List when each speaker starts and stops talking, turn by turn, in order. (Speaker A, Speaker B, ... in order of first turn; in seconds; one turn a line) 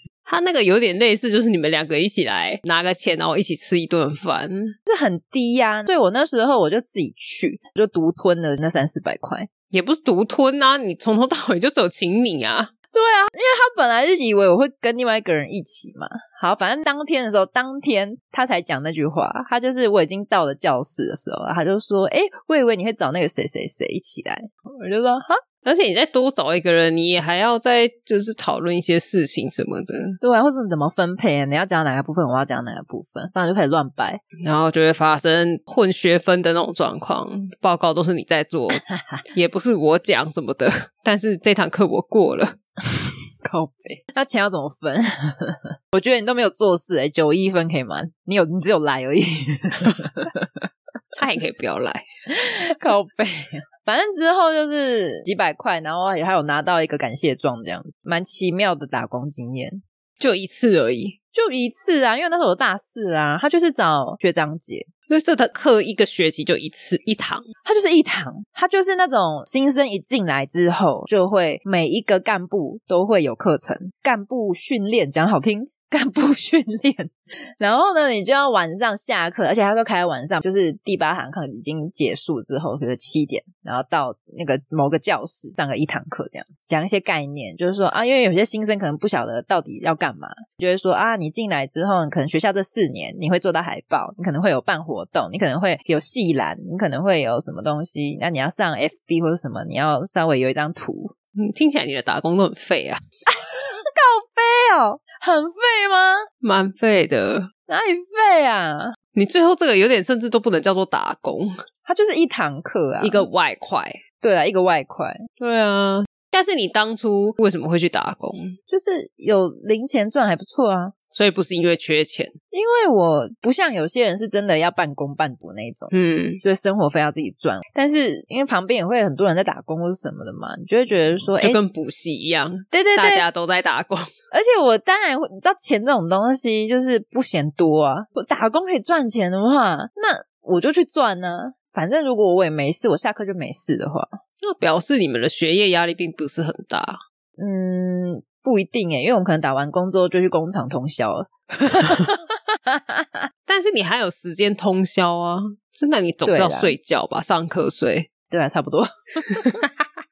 Speaker A: 0.2-4.7
Speaker B: 4.8-9.5
Speaker A: 9.7-12.7
Speaker B: 12.9-25.4
Speaker A: 25.6-30.2
Speaker B: 30.2-34.2
Speaker A: 34.4-42.6
Speaker B: 38.8-39.2
Speaker B: 43.4-50.6
Speaker A: 51.1-52.0
Speaker B: 52.3-59.8
Speaker A: 60.2-61.2
Speaker B: 61.3-64.9
Speaker A: 65.1-67.5
Speaker B: 67.6-101.1
Speaker A: 101.4-103.0
Speaker B: 103.3-106.3
Speaker A: 106.4-107.5
Speaker B: 107.7-109.0
Speaker A: 109.2-111.6
Speaker B: 111.8-113.3
Speaker A: 113.0-114.0
Speaker B: 114.2-115.2
Speaker A: 115.4-118.5
Speaker B: 118.7-120.9
Speaker A: 121.1-122.3
Speaker B: 122.5-131.6
Speaker A: 125.9-126.4
Speaker A: 131.4-134.1
Speaker B: 132.7-133.2
Speaker B: 134.3-144.2
Speaker A: 144.4-147.0
Speaker B: 147.4-153.2
Speaker A: 153.5-158.1
Speaker B: 156.2-156.7
Speaker B: 158.3-159.6